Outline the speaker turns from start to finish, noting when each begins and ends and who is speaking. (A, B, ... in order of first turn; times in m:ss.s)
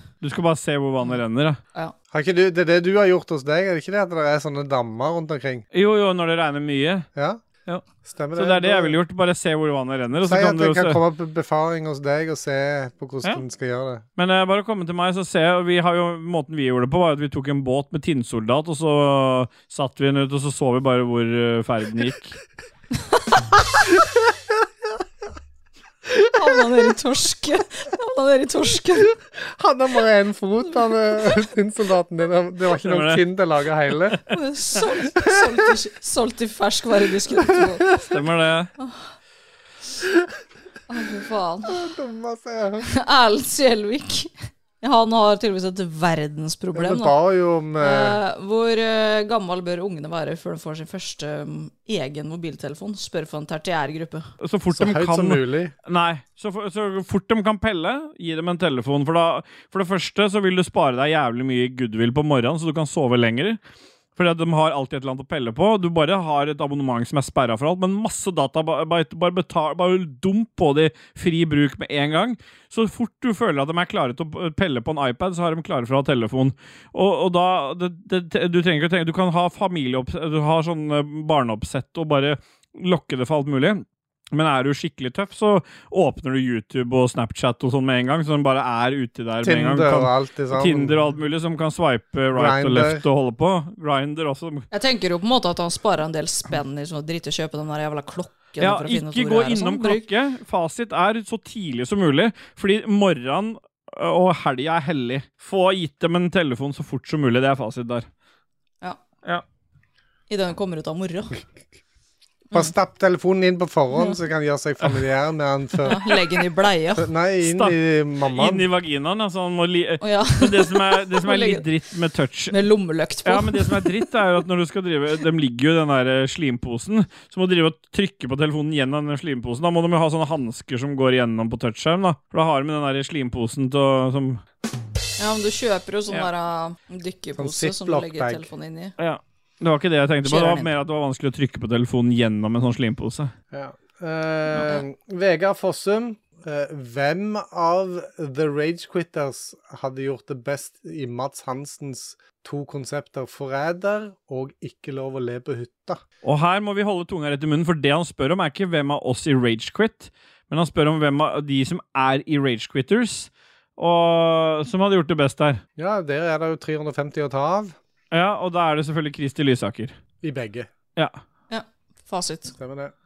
0:00.2-0:01.6 A
0:02.1-0:05.6 B
0:05.7-0:07.1 A
0:07.1-0:07.4 B
0:08.0-0:09.0 B
0:08.3-0:11.0 A
0:10.2-0:14.0 B
0:14.2-0:22.4 A
0:26.3-0:29.2 C
0:29.5-0:34.2 B
0:32.8-0:33.2 A
0:34.3-0:37.9 C
0:38.0-0:38.7 A
0:38.8-0:39.0 C
0:40.9-0:41.8 C
0:41.6-0:42.9 B
0:42.8-0:47.1 C
0:46.7-0:48.2 B
0:47.8-0:54.3 C
0:54.4-1:03.6 A
0:54.7-0:55.7 B
1:04.2-1:34.7 A
1:29.4-1:31.0 B
1:32.3-1:33.0 B
1:34.7-1:40.0 C
1:38.6-1:48.0 A
1:50.3-1:51.4 C
1:52.5-1:56.1 B
1:55.8-1:57.1 C
1:56.9-1:58.7 B
1:57.4-2:02.5 A
2:00.0-2:01.6 C
2:02.5-2:03.9 C
2:03.2-2:14.4 A
2:15.2-2:18.9 C
2:17.4-2:18.5 B
2:19.0-2:23.3 A
2:20.2-2:20.7 C
2:23.5-2:36.0 B
2:36.2-2:45.6 A
2:45.8-2:47.8 B
2:48.1-2:50.0 A
2:50.2-2:50.7 B
2:51.5-2:52.5 C
2:52.6-2:52.9 B